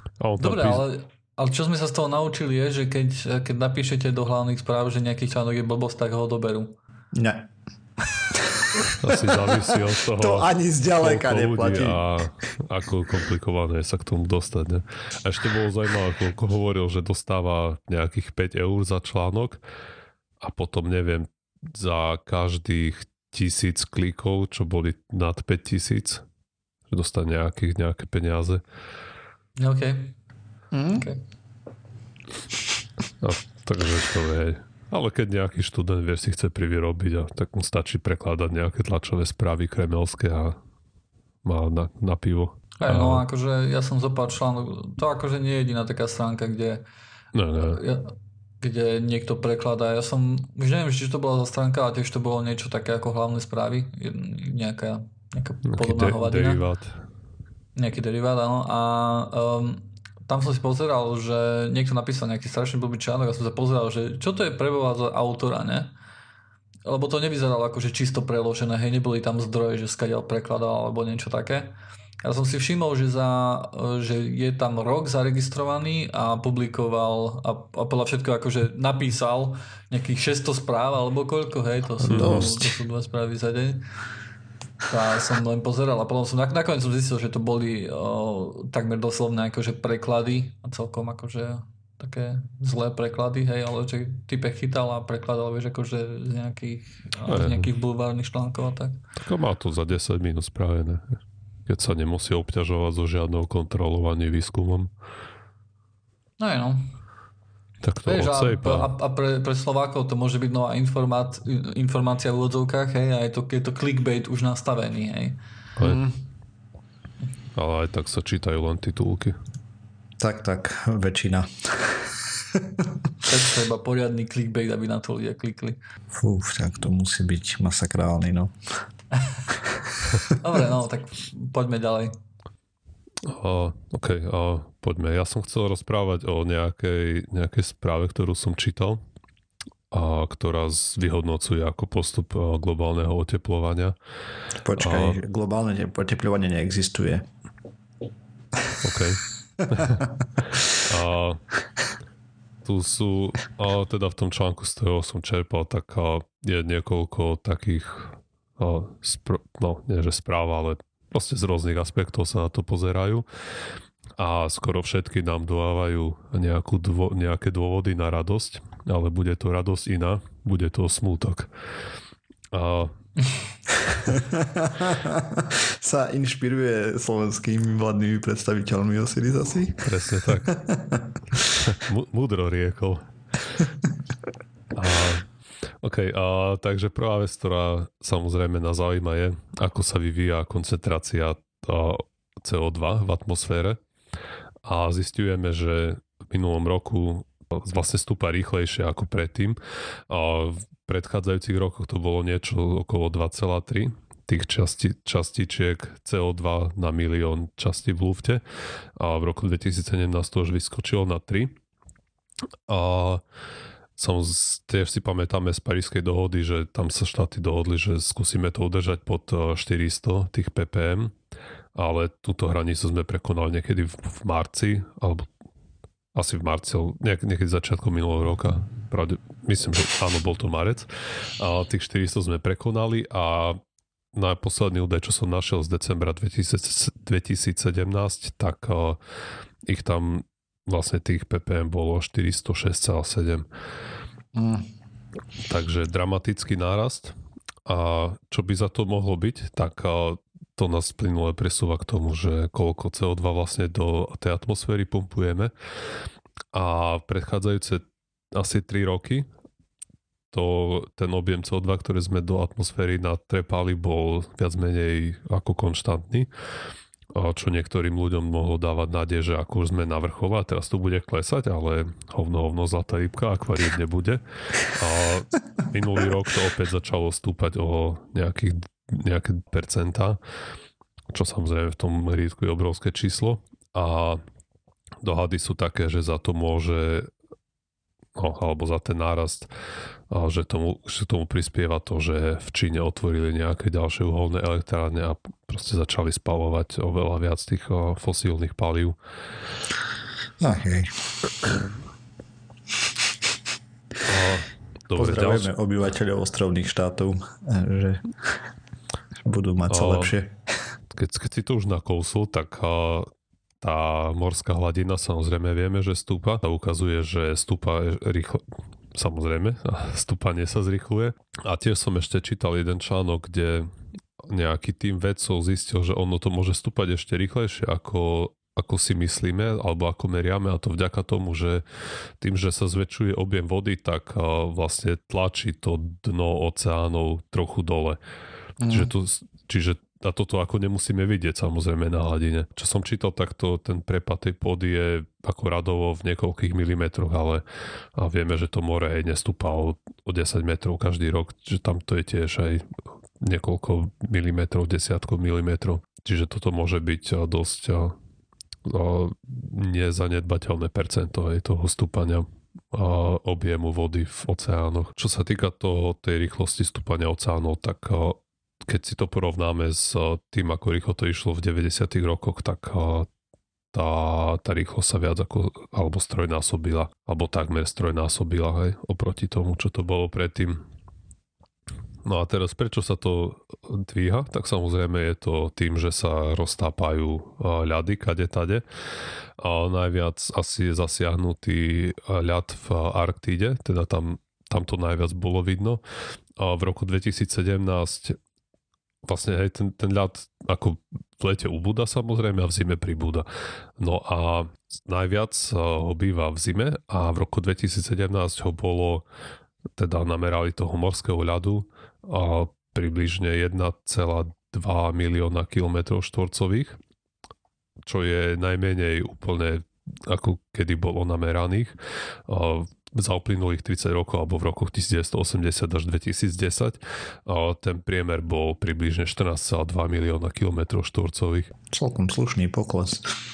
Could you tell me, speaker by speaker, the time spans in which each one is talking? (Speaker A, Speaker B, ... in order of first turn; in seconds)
Speaker A: 0.2-0.8, 9.0-19.6, 20.4-26.2, 26.9-28.6, 33.2-40.6, 41.4-43.2, 47.4-47.8, 55.7-57.0, 82.1-82.5, 97.3-97.7, 99.2-104.9, 107.8-108.9, 117.5-119.4, 133.2-139.0, 139.9-144.0, 144.8-145.2, 148.8-150.0, 150.7-151.4, 152.7-163.2, 164.2-171.5, 172.5-172.9, 179.8-180.6, 181.6-183.1, 184.7-185.3, 185.8-193.8, 194.7-199.6, 200.1-208.4, 209.0-211.6, 212.7-213.2, 214.0-221.1, 221.8-225.3, 226.2-233.6, 234.1-239.0, 239.7-243.4, 245.4-247.1, 247.7-255.5, 256.5-259.3, 260.3-266.3, 267.1-280.2, 281.1-284.2, 285.0-287.1, 288.2-289.5, 290.1-299.0, 304.1-305.5, 309.7-310.1, 310.9-313.1, 313.6-331.6, 332.2-338.0, 338.6-347.4, 347.9-358.0, 358.6-373.1, 373.7-380.6, 382.1-388.6, 389.4-395.8, 396.4-398.2, 399.1-403.3, 403.8-409.0, 409.7-416.8, 417.8-421.8, 422.3-431.5
Speaker B: 0.4-6.8, 29.6-30.1, 42.8-46.8, 47.6-56.6, 57.8-65.9, 66.8-83.8, 84.9-99.0, 106.4-106.8, 108.0-115.4, 123.3-125.8, 130.4-132.1
Speaker C: 7.1-7.5, 8.3-12.2, 30.7-31.1, 82.0-82.7, 115.8-116.2, 120.2-122.9, 126.1-128.5, 129.6-130.3, 144.7-147.3, 173.9-179.9, 180.5-181.4, 244.3-244.7, 300.4-301.6, 305.0-308.4, 309.2-310.5, 338.6-338.9, 431.7-433.2